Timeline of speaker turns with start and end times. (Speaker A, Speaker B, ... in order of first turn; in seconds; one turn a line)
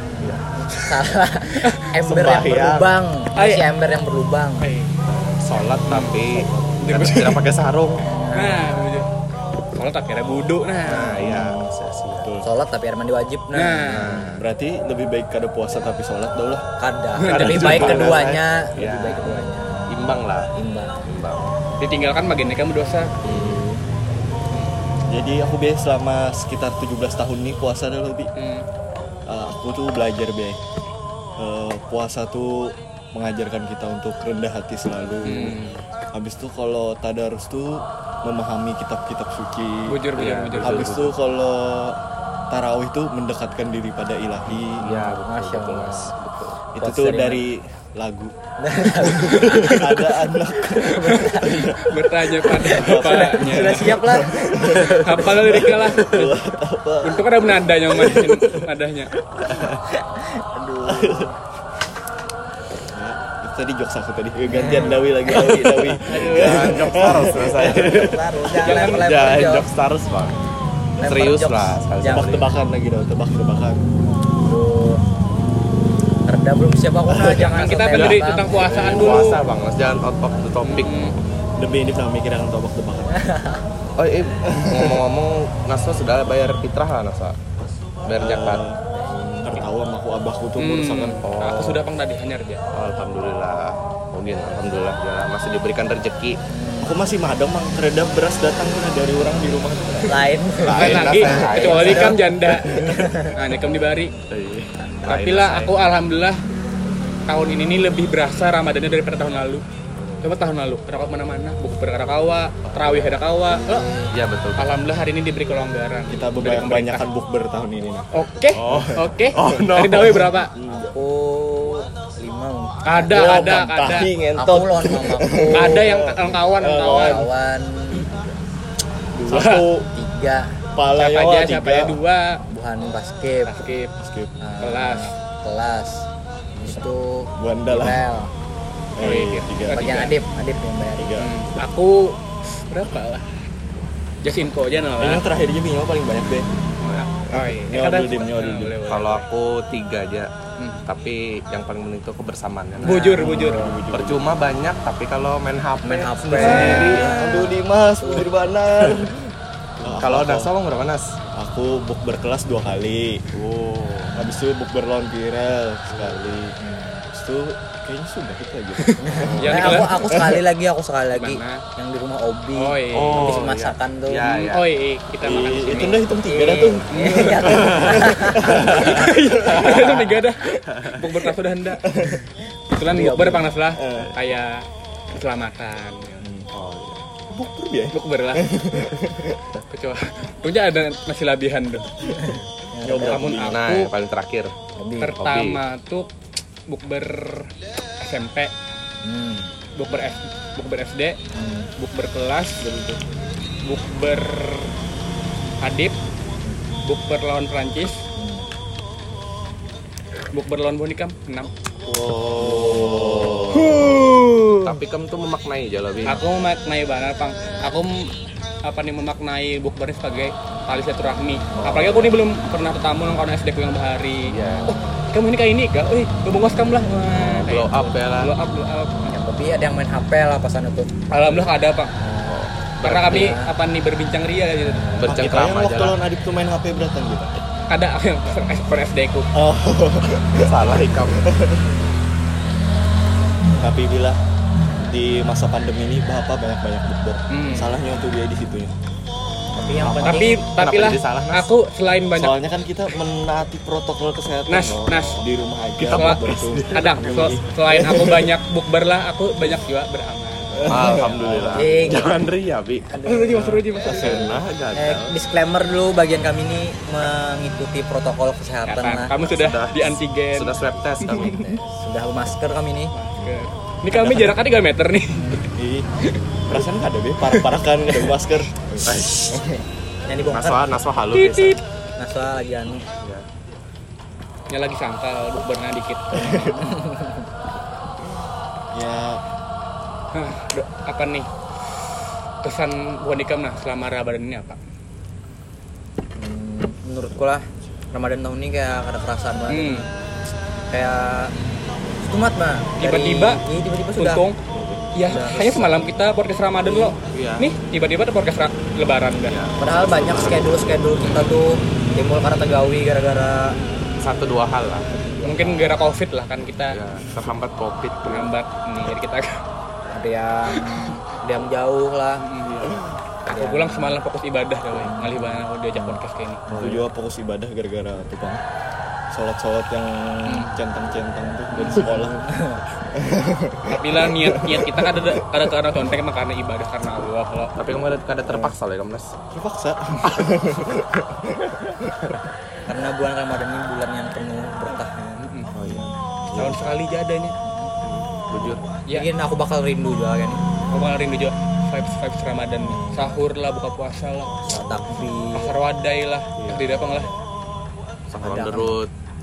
Speaker A: 0.6-4.7
Speaker B: 1.6-1.9
Speaker C: 2.0-2.9
Speaker B: 3.4-3.7
Speaker B: 4.6-5.0
Speaker C: 5.1-8.1
Speaker B: 5.9-6.2
Speaker B: 6.8-7.4
Speaker A: 8.0-8.9
Speaker B: 8.3-9.1
Speaker B: 9.8-11.2
Speaker C: 10.8-12.3
Speaker D: 11.2-11.7
Speaker D: 12.2-12.5
Speaker A: 12.4-13.8
Speaker B: 13.5-14.0
Speaker C: 13.8-14.4
Speaker D: 14.0-16.7
Speaker A: 16.8-21.1
Speaker B: 17.2-18.2
Speaker C: 17.2-19.4
Speaker D: 17.6-18.4
Speaker C: 19.9-20.5
Speaker C: 21.0-21.5
Speaker B: 21.8-23.1
Speaker A: 23.2-23.8
Speaker D: 25.1-28.3
Speaker B: 28.4-28.7
Speaker D: 29.3-30.6
Speaker D: 31.4-35.6
Speaker B: 35.2-35.8
Speaker D: 36.1-44.9
Speaker B: 39.9-40.9
Speaker C: 40.2-41.1
Speaker C: 44.6-46.6
Speaker A: 44.8-46.1
Speaker D: 46.7-48.4
Speaker A: 46.8-47.5
Speaker A: 48.6-50.0
Speaker D: 48.9-58.6
Speaker B: 49.4-49.7
Speaker A: 50.9-51.7
Speaker B: 51.1-53.9
Speaker A: 52.7-55.0
Speaker B: 54.9-56.3
Speaker C: 55.9-56.3
Speaker B: 57.0-59.1
Speaker D: 60.6-61.3
Speaker A: 60.6-61.3
Speaker D: 62.9-67.7
Speaker A: 64.5-65.0
Speaker B: 64.6-65.0
Speaker C: 65.2-70.4
Speaker B: 66.1-66.9
Speaker A: 67.0-69.7
Speaker B: 68.6-69.1
Speaker A: 71.0-72.5
Speaker C: 71.0-72.5
Speaker D: 72.1-73.8
Speaker A: 74.4-75.0
Speaker A: 76.3-79.2
Speaker C: 77.2-80.9
Speaker B: 77.5-79.4
Speaker B: 80.6-81.2
Speaker D: 81.6-83.2
Speaker A: 83.2-83.6
Speaker C: 84.0-87.4
Speaker D: 84.4-85.0
Speaker D: 87.6-91.2
Speaker C: 88.0-88.6
Speaker A: 89.0-89.5
Speaker B: 90.6-92.6
Speaker C: 91.2-91.8
Speaker C: 92.7-96.4
Speaker A: 96.5-97.0
Speaker D: 96.8-100.3
Speaker A: 100.1-103.3
Speaker C: 100.6-102.2
Speaker B: 100.8-104.1
Speaker D: 102.7-103.1
Speaker C: 104.3-105.7
Speaker B: 105.1-106.4
Speaker B: 107.3-109.6
Speaker B: 110.2-113.9
Speaker A: 113.5-114.2
Speaker C: 114.1-114.7
Speaker B: 114.6-117.1
Speaker D: 116.1-118.1
Speaker B: 118.1-120.5
Speaker C: 118.5-120.3
Speaker D: 118.7-119.6
Speaker D: 120.5-121.0
Speaker A: 120.9-123.3
Speaker B: 122.8-124.1
Speaker D: 123.1-127.3
Speaker A: 124.4-125.8
Speaker B: 125.5-127.3
Speaker A: 126.7-128.1
Speaker D: 129.2-129.9
Speaker B: 129.3-129.7
Speaker A: 129.9-130.6
Speaker D: 130.8-132.0
Speaker B: 131.0-132.4
Speaker A: 132.5-133.5
Speaker B: 133.4-133.9
Speaker D: 134.0-134.3
Speaker A: 134.4-136.0
Speaker B: 134.6-135.2
Speaker A: 136.6-138.3
Speaker D: 137.4-138.0
Speaker D: 138.9-139.9
Speaker B: 139.0-140.1
Speaker A: 139.7-141.2
Speaker D: 141.0-141.3
Speaker B: 141.2-143.3
Speaker B: 144.2-145.2
Speaker D: 145.0-146.5
Speaker C: 146.8-147.1
Speaker B: 146.8-149.3
Speaker D: 147.3-148.8
Speaker C: 148.9-150.3
Speaker B: 150.6-150.8
Speaker C: 150.9-153.1
Speaker A: 152.8-153.8
Speaker B: 152.8-153.7
Speaker D: 153.2-154.3
Speaker C: 153.9-157.5
Speaker A: 155.8-158.3
Speaker D: 156.3-160.6
Speaker B: 156.4-157.1
Speaker C: 159.9-161.1
Speaker D: 161.3-163.2
Speaker C: 163.3-164.3
Speaker D: 164.1-170.4
Speaker C: 165.9-166.2
Speaker A: 166.7-166.9
Speaker B: 168.9-169.9
Speaker A: 169.0-174.6
Speaker C: 169.3-169.8
Speaker B: 171.1-171.6
Speaker B: 172.6-173.3
Speaker C: 172.9-174.7
Speaker B: 174.5-176.1
Speaker D: 175.2-179.7
Speaker A: 175.8-178.6
Speaker B: 176.9-178.0
Speaker C: 178.5-180.2
Speaker B: 178.7-181.9
Speaker D: 181.9-182.2
Speaker A: 182.7-183.5
Speaker B: 182.7-186.2
Speaker D: 183.8-184.2
Speaker D: 186.2-186.5
Speaker C: 186.5-187.0
Speaker D: 187.3-189.4
Speaker B: 187.9-188.5
Speaker B: 189.7-191.9
Speaker A: 192.2-193.2
Speaker D: 192.8-193.6
Speaker B: 193.0-193.9
Speaker C: 193.5-194.5
Speaker A: 194.8-195.2
Speaker B: 195.0-196.1
Speaker C: 195.2-195.6
Speaker B: 196.7-197.5
Speaker B: 198.0-198.5
Speaker A: 199.0-199.5
Speaker B: 199.8-201.2
Speaker A: 201.3-201.7
Speaker B: 201.8-202.7
Speaker D: 202.6-203.0
Speaker B: 203.6-204.7
Speaker B: 205.6-205.9
Speaker B: 206.8-208.0
Speaker A: 208.2-208.5
Speaker B: 210.3-211.5
Speaker C: 211.8-213.8
Speaker D: 212.4-214.0
Speaker C: 214.6-216.2
Speaker B: 216.1-218.1
Speaker B: 218.6-229.2
Speaker C: 221.6-222.2
Speaker C: 224.2-224.8
Speaker A: 224.5-225.0
Speaker C: 227.2-228.3
Speaker A: 229.1-230.9
Speaker B: 231.1-231.9
Speaker A: 232.0-232.4
Speaker C: 232.3-233.3
Speaker B: 232.8-234.9
Speaker A: 233.0-233.5
Speaker C: 234.9-236.0
Speaker D: 235.1-237.3
Speaker B: 237.7-239.3
Speaker D: 239.3-241.7
Speaker C: 240.4-241.3
Speaker D: 243.5-244.2
Speaker D: 244.8-248.7
Speaker B: 247.3-247.8
Speaker A: 249.6-250.5
Speaker C: 249.8-251.5
Speaker B: 250.0-252.4
Speaker D: 252.2-258.4
Speaker B: 254.5-255.2
Speaker C: 255.8-257.4
Speaker B: 255.9-261.0
Speaker D: 260.5-262.1
Speaker C: 260.7-262.9
Speaker A: 261.5-262.3
Speaker A: 262.9-269.1
Speaker B: 263.1-264.3
Speaker D: 263.4-264.5
Speaker C: 263.9-265.1
Speaker B: 268.7-271.3
Speaker C: 269.2-271.5
Speaker A: 271.2-272.9
Speaker B: 272.9-275.4
Speaker D: 273.2-274.4
Speaker A: 275.1-275.5
Speaker D: 275.5-275.9
Speaker D: 276.5-279.6
Speaker B: 277.3-278.2
Speaker C: 278.8-279.4
Speaker A: 280.1-280.8
Speaker C: 280.2-281.6
Speaker B: 281.1-281.6
Speaker A: 282.0-282.9
Speaker B: 284.5-286.5
Speaker D: 286.1-286.7
Speaker A: 286.6-287.1
Speaker D: 288.7-289.2
Speaker B: 290.1-291.3
Speaker B: 292.4-294.6
Speaker A: 296.2-299.9
Speaker B: 299.5-299.9
Speaker A: 300.7-301.3
Speaker A: 302.0-304.3
Speaker B: 302.8-303.4
Speaker B: 304.0-304.4
Speaker B: 304.9-309.4
Speaker A: 305.1-306.0
Speaker A: 306.6-306.9
Speaker C: 307.1-307.5
Speaker C: 309.3-311.2
Speaker A: 309.6-313.6
Speaker C: 314.0-314.9
Speaker A: 314.9-315.9
Speaker B: 315.2-316.8
Speaker C: 316.7-318.3
Speaker B: 318.1-319.4
Speaker A: 319.9-322.3
Speaker B: 322.2-322.7
Speaker C: 322.5-322.7
Speaker B: 323.3-326.4
Speaker A: 323.3-324.0
Speaker A: 324.8-326.9
Speaker D: 326.5-328.4
Speaker D: 329.1-332.3
Speaker B: 330.3-330.6
Speaker A: 331.6-332.6
Speaker B: 331.6-331.9
Speaker D: 332.9-335.4
Speaker B: 333.7-337.5
Speaker C: 337.6-339.1
Speaker D: 339.3-341.9
Speaker A: 342.7-345.9
Speaker B: 345.2-345.5
Speaker C: 345.5-345.9
Speaker D: 346.3-346.6
Speaker B: 346.4-347.4
Speaker A: 347.4-347.8
Speaker C: 347.9-348.6
Speaker A: 348.9-350.4
Speaker B: 350.7-354.4
Speaker A: 352.6-353.3
Speaker A: 354.4-355.6
Speaker C: 354.5-355.1
Speaker B: 355.3-357.1
Speaker C: 356.4-356.9
Speaker C: 358.1-358.9
Speaker A: 358.2-358.8